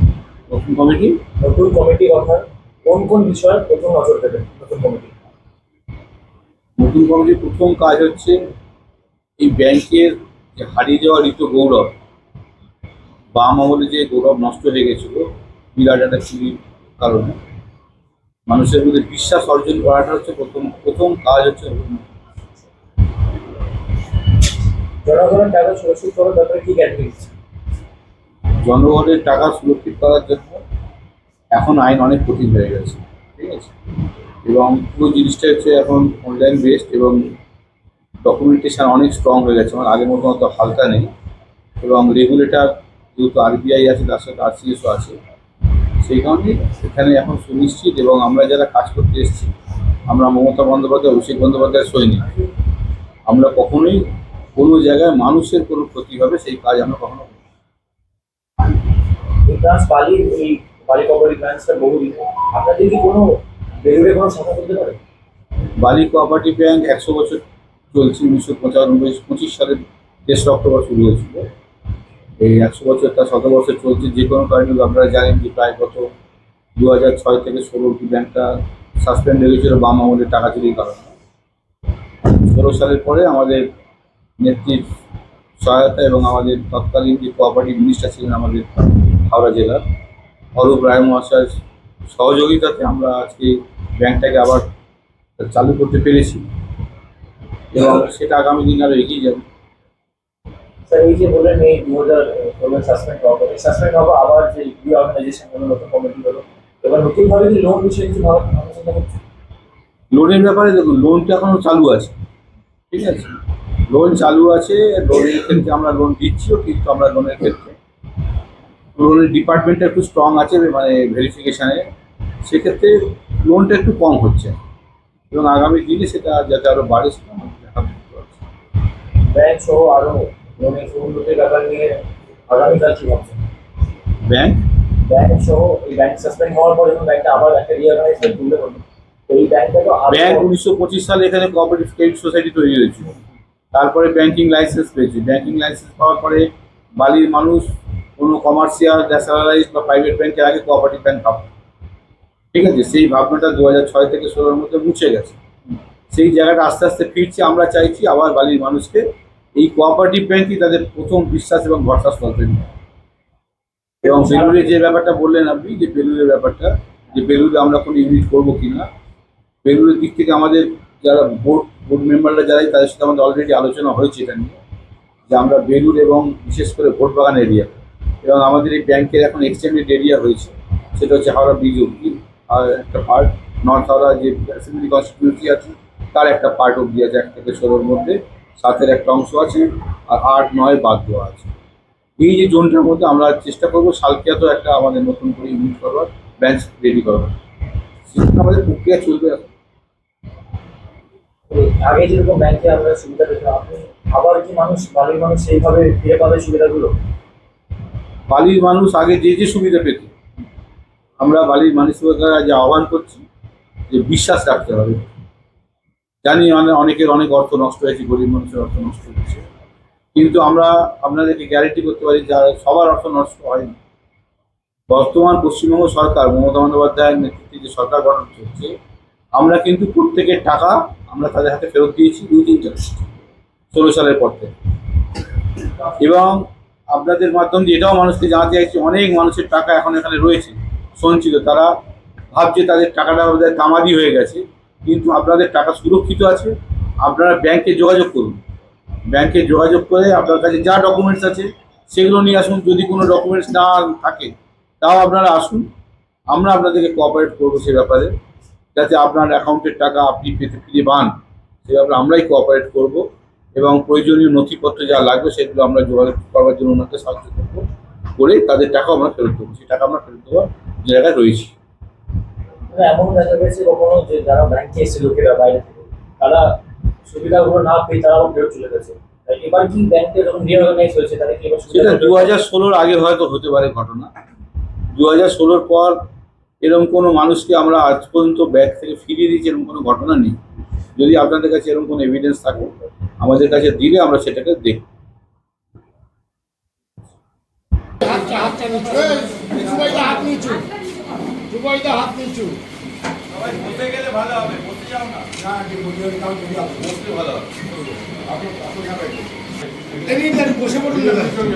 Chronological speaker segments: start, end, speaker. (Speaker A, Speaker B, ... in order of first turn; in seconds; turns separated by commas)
Speaker A: 0.5-1.2, Speaker B: 1.4-5.2, Speaker A: 6.8-8.4, Speaker A: 9.4-11.9, Speaker A: 13.3-17.4, Speaker A: 18.5-22.1, Speaker B: 25.1-27.3, Speaker A: 28.6-30.6, Speaker A: 31.5-33.7, Speaker A: 34.5-37.4, Speaker A: 38.2-41.1, Speaker A: 41.8-45.2, Speaker A: 46.0-49.5, Speaker A: 50.1-52.3, Speaker A: 53.3-54.0, Speaker A: 54.6-57.4, Speaker B: 59.4-65.0, Speaker A: 65.8-67.4, Speaker A: 67.9-71.5, Speaker A: 72.4-76.1, Speaker A: 76.8-81.1, Speaker A: 82.2-83.7, Speaker A: 84.4-85.0, Speaker A: 85.6-89.8, Speaker A: 90.6-94.7, Speaker A: 95.4-96.4, Speaker A: 97.7-99.4, Speaker B: 100.9-109.2, Speaker A: 110.1-112.1, Speaker A: 112.9-117.8, Speaker A: 119.0-121.9, Speaker A: 122.5-124.6, Speaker A: 125.3-128.4, Speaker B: 129.3-133.4, Speaker A: 134.2-134.7, Speaker B: 135.0-140.5, Speaker A: 140.1-143.1, Speaker A: 143.7-151.5, Speaker A: 152.5-155.4, Speaker A: 156.1-159.1, Speaker A: 159.6-162.7, Speaker A: 164.0-168.9, Speaker B: 164.0-164.7, Speaker A: 169.6-174.6, Speaker A: 175.3-191.5, Speaker A: 192.2-197.3, Speaker A: 198.1-199.5, Speaker B: 201.5-206.9, Speaker A: 208.3-210.1, Speaker A: 211.2-213.2, Speaker A: 213.9-215.1, Speaker A: 216.2-219.5, Speaker A: 220.2-223.8, Speaker A: 224.9-228.7, Speaker A: 229.4-233.0, Speaker A: 233.7-234.5, Speaker A: 235.9-241.7, Speaker A: 242.3-248.4, Speaker A: 249.1-255.7, Speaker A: 256.3-258.1, Speaker A: 258.8-261.1, Speaker A: 261.7-263.1, Speaker A: 263.6-271.5, Speaker B: 272.7-282.4, Speaker A: 281.7-284.1, Speaker A: 284.9-286.0, Speaker A: 286.6-290.4, Speaker A: 291.0-294.9, Speaker C: 298.3-299.2, Speaker A: 299.4-300.2, Speaker C: 299.9-300.7, Speaker C: 301.5-302.5, Speaker A: 303.5-305.5, Speaker A: 306.4-307.6, Speaker C: 310.1-311.3, Speaker A: 310.9-311.2